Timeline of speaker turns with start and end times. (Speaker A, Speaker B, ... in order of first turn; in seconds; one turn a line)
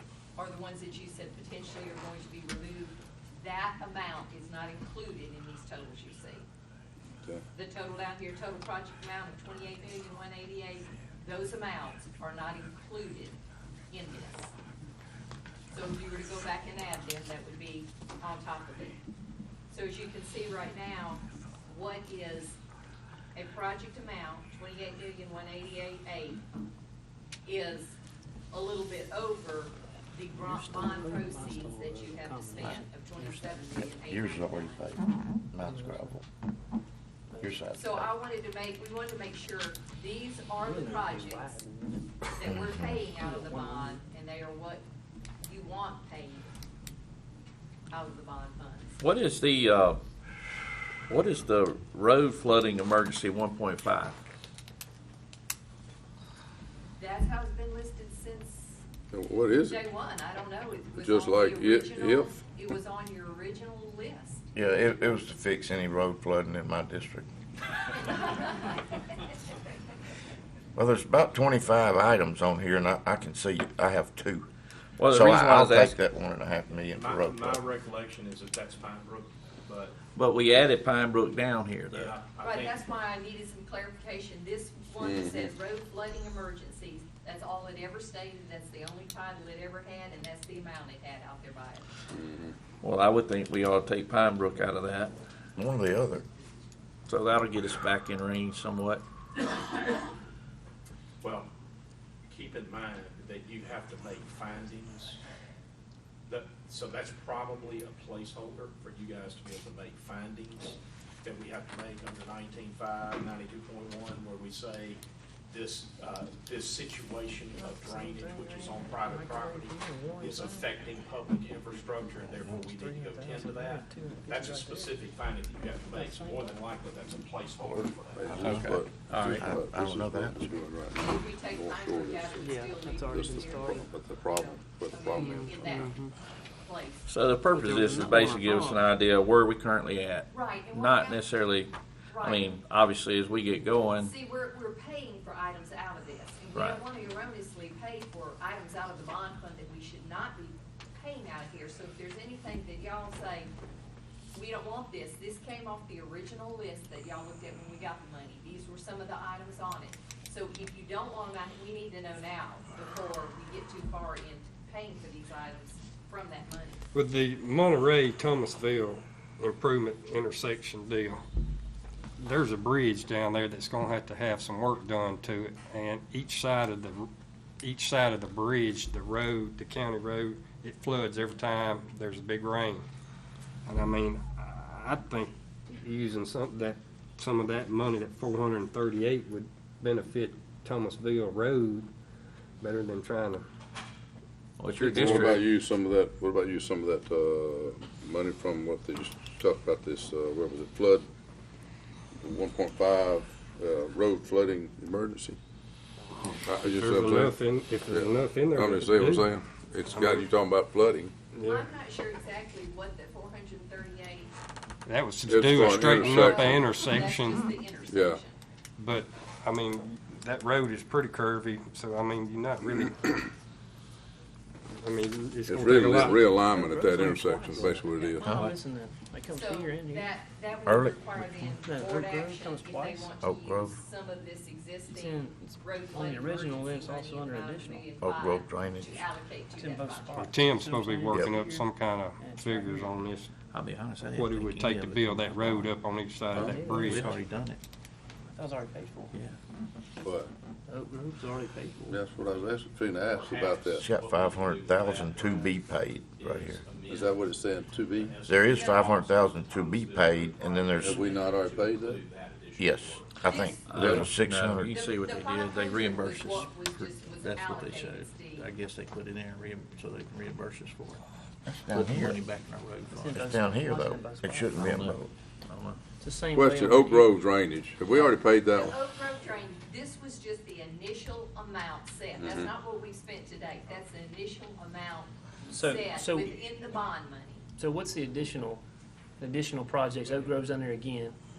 Speaker A: 0.3-6.5
Speaker A: 7.5-13.3
Speaker A: 13.9-14.5
Speaker A: 15.7-19.0
Speaker A: 19.7-22.6
Speaker A: 23.3-26.4
Speaker A: 27.4-28.0
Speaker A: 28.5-34.9
Speaker B: 30.4-33.6
Speaker C: 33.9-36.2
Speaker B: 35.6-36.1
Speaker B: 37.3-37.6
Speaker C: 37.4-38.1
Speaker A: 37.7-41.6
Speaker B: 40.6-42.1
Speaker A: 42.3-44.8
Speaker C: 42.5-43.0
Speaker B: 43.0-44.0
Speaker A: 45.4-46.5
Speaker A: 47.9-49.0
Speaker D: 49.0-50.0
Speaker D: 51.1-54.2
Speaker A: 57.0-58.8
Speaker E: 59.1-59.8
Speaker A: 59.6-64.4
Speaker E: 60.9-62.4
Speaker C: 64.5-67.3
Speaker A: 68.0-69.0
Speaker C: 70.8-74.5
Speaker D: 75.0-76.0
Speaker C: 75.1-77.6
Speaker F: 76.9-80.0
Speaker D: 80.1-82.2
Speaker F: 81.9-82.8
Speaker A: 82.4-91.9
Speaker E: 85.0-85.5
Speaker E: 92.1-92.5
Speaker D: 92.8-95.1
Speaker C: 95.6-96.2
Speaker D: 97.1-99.0
Speaker F: 101.2-101.5
Speaker F: 102.3-105.2
Speaker F: 106.3-128.6
Speaker B: 117.6-120.8
Speaker B: 122.2-125.0
Speaker B: 125.9-126.6
Speaker E: 127.6-135.8
Speaker C: 128.3-130.5
Speaker D: 128.5-129.4
Speaker A: 130.9-136.0
Speaker B: 132.3-133.8
Speaker B: 135.1-136.1
Speaker A: 136.6-137.1
Speaker D: 137.1-144.1
Speaker B: 137.5-138.8
Speaker A: 140.3-141.2
Speaker A: 142.1-142.5
Speaker A: 144.0-153.5
Speaker D: 146.5-146.8
Speaker A: 154.3-166.9
Speaker G: 166.9-171.2
Speaker G: 172.2-177.1
Speaker G: 177.6-182.8
Speaker G: 183.6-191.9
Speaker G: 192.6-193.4
Speaker D: 194.6-195.4
Speaker G: 194.8-195.4
Speaker E: 194.8-201.1
Speaker E: 202.2-205.4
Speaker E: 206.3-211.1
Speaker G: 206.3-210.3
Speaker G: 211.3-211.7
Speaker A: 211.4-214.3
Speaker G: 214.8-217.4
Speaker E: 215.2-216.7
Speaker A: 215.9-218.4
Speaker E: 217.9-218.2
Speaker G: 218.8-223.2
Speaker G: 224.7-227.8
Speaker E: 225.4-228.3
Speaker B: 226.3-230.2
Speaker A: 227.9-228.5
Speaker D: 228.3-228.5
Speaker A: 229.3-240.3
Speaker C: 230.7-231.1
Speaker B: 231.2-233.1
Speaker C: 233.2-233.8
Speaker B: 234.9-237.9
Speaker C: 238.0-239.1
Speaker B: 239.6-242.9
Speaker G: 240.2-243.3
Speaker C: 241.1-241.4
Speaker D: 243.5-245.7
Speaker G: 244.1-247.1
Speaker D: 246.3-247.6
Speaker E: 246.3-246.6
Speaker B: 246.4-247.2
Speaker B: 248.3-249.1
Speaker E: 250.0-250.3
Speaker B: 250.7-252.0
Speaker E: 251.9-253.8
Speaker F: 253.1-263.1
Speaker C: 253.8-256.6
Speaker E: 256.9-258.1
Speaker C: 258.2-261.1
Speaker A: 258.5-258.8
Speaker E: 260.8-262.0
Speaker C: 262.6-264.7
Speaker A: 263.2-263.8
Speaker D: 263.7-271.0
Speaker E: 263.8-264.1
Speaker A: 264.7-268.4
Speaker C: 271.4-272.2
Speaker D: 271.7-273.3
Speaker B: 272.9-274.7
Speaker C: 273.1-275.1
Speaker D: 274.6-275.8
Speaker B: 276.0-277.1
Speaker E: 276.3-278.8
Speaker A: 278.5-287.5
Speaker E: 282.2-282.5
Speaker B: 285.5-286.4
Speaker B: 287.5-288.6
Speaker B: 289.2-291.2